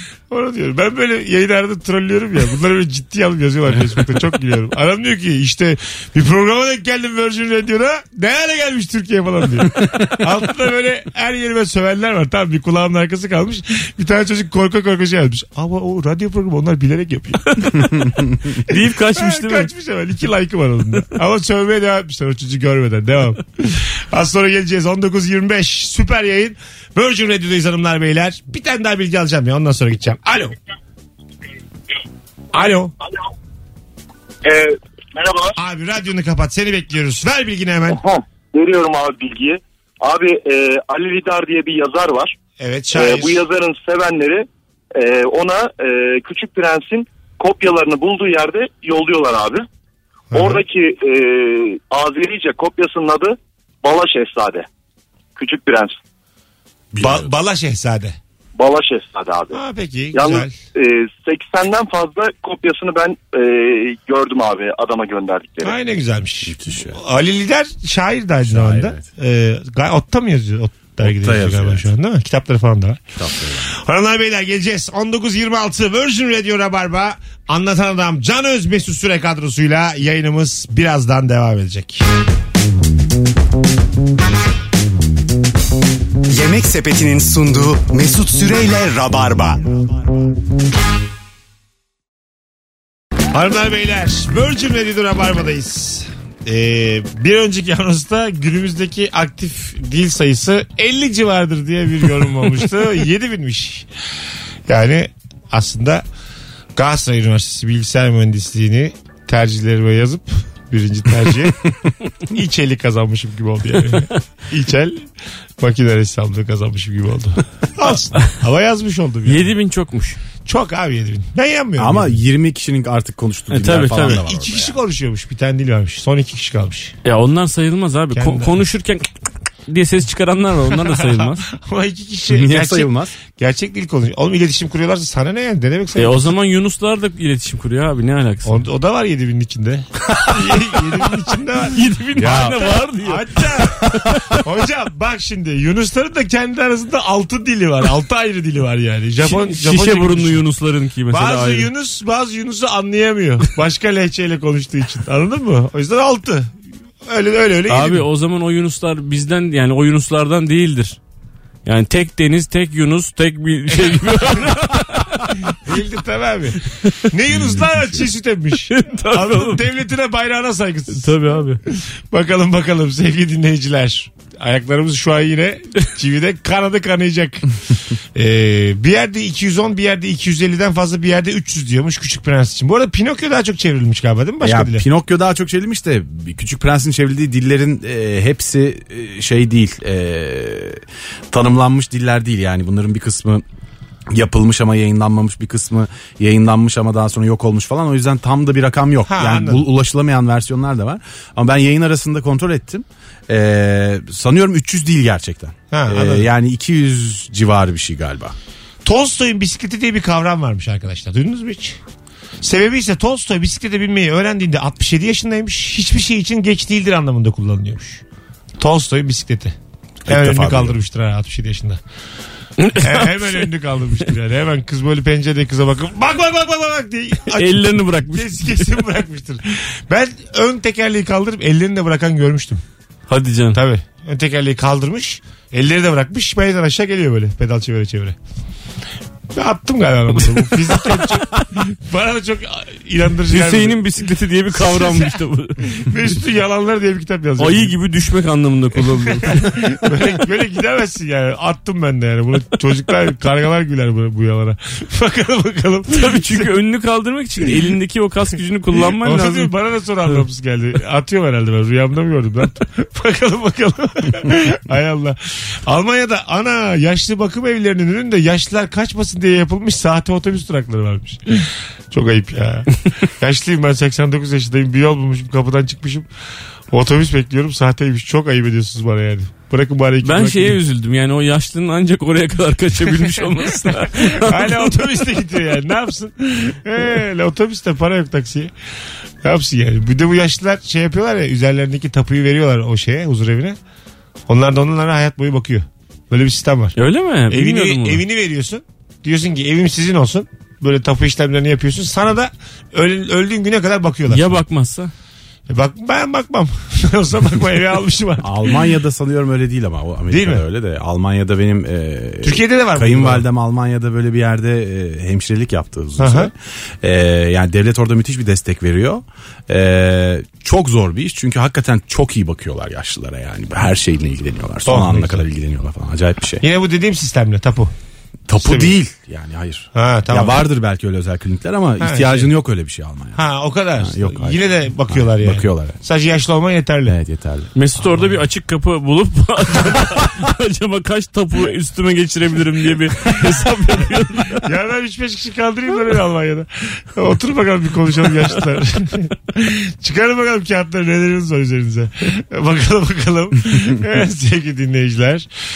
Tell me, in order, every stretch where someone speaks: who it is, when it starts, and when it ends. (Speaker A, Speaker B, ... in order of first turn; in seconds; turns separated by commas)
Speaker A: 0.3-17.8, Speaker B: 17.6-17.8, Speaker B: 18.6-19.7, Speaker A: 18.7-30.5, Speaker A: 32.5-32.9, Speaker C: 34.4-35.5, Speaker A: 35.6-38.0, Speaker C: 37.9-42.4, Speaker A: 42.6-43.4, Speaker C: 42.9-49.6, Speaker A: 50.3-50.6, Speaker C: 50.3-54.7, Speaker C: 55.4-56.0, Speaker D: 56.9-57.3, Speaker A: 57.0-58.1, Speaker C: 58.5-59.6, Speaker A: 59.5-60.5, Speaker C: 60.1-65.7, Speaker A: 65.6-73.0, Speaker D: 66.4-67.0, Speaker D: 68.4-69.0, Speaker D: 71.0-71.9, Speaker D: 73.2-73.7, Speaker A: 73.7-82.0, Speaker E: 86.3-89.7, Speaker A: 93.3-103.8, Speaker A: 104.7-106.0, Speaker A: 106.8-111.7, Speaker A: 112.3-115.0, Speaker A: 115.6-119.5, Speaker B: 119.3-120.2, Speaker A: 120.5-122.2, Speaker D: 121.8-124.8, Speaker B: 123.5-124.2, Speaker A: 124.0-126.9, Speaker B: 127.0-129.1, Speaker A: 128.1-128.6, Speaker B: 129.7-131.4, Speaker A: 130.9-136.3, Speaker D: 132.3-133.1, Speaker B: 135.9-138.6, Speaker A: 138.4-150.4, Speaker B: 141.7-143.4, Speaker D: 142.2-142.7, Speaker B: 143.9-144.2, Speaker B: 149.2-151.7, Speaker A: 151.1-156.5, Speaker A: 157.1-158.1, Speaker B: 157.7-161.0, Speaker B: 161.6-165.6, Speaker A: 163.7-164.6, Speaker A: 165.5-177.6, Speaker B: 168.7-169.6, Speaker B: 170.9-171.6, Speaker A: 178.1-184.8, Speaker D: 184.4-193.4, Speaker D: 194.1-208.3, Speaker A: 199.1-199.7, Speaker A: 205.7-206.3, Speaker A: 208.8-211.8, Speaker A: 212.4-218.0, Speaker A: 218.6-219.6, Speaker D: 220.0-220.8, Speaker A: 220.1-221.8, Speaker B: 222.6-223.4, Speaker A: 222.8-232.6, Speaker B: 227.3-228.7, Speaker B: 233.1-233.6, Speaker A: 233.5-238.2, Speaker A: 239.3-243.9, Speaker B: 240.3-241.4, Speaker B: 243.3-245.6, Speaker A: 244.5-247.8, Speaker B: 247.4-249.6, Speaker A: 248.8-256.5, Speaker B: 255.9-259.5, Speaker A: 259.0-276.1, Speaker A: 276.7-280.6, Speaker B: 280.0-284.7, Speaker A: 282.9-288.5, Speaker A: 289.2-293.6, Speaker A: 294.3-296.8, Speaker B: 296.8-298.0, Speaker A: 297.3-304.4, Speaker B: 304.1-304.9, Speaker A: 305.5-308.6, Speaker D: 308.2-326.4, Speaker A: 310.1-310.4, Speaker A: 312.2-313.2, Speaker A: 316.0-316.3, Speaker A: 324.6-325.2, Speaker A: 326.4-327.7, Speaker D: 328.3-333.2, Speaker A: 328.4-328.8, Speaker A: 329.7-330.5, Speaker A: 331.8-332.3, Speaker A: 333.1-336.9, Speaker D: 333.8-335.8, Speaker D: 336.9-337.5, Speaker B: 337.5-344.4, Speaker A: 344.4-355.3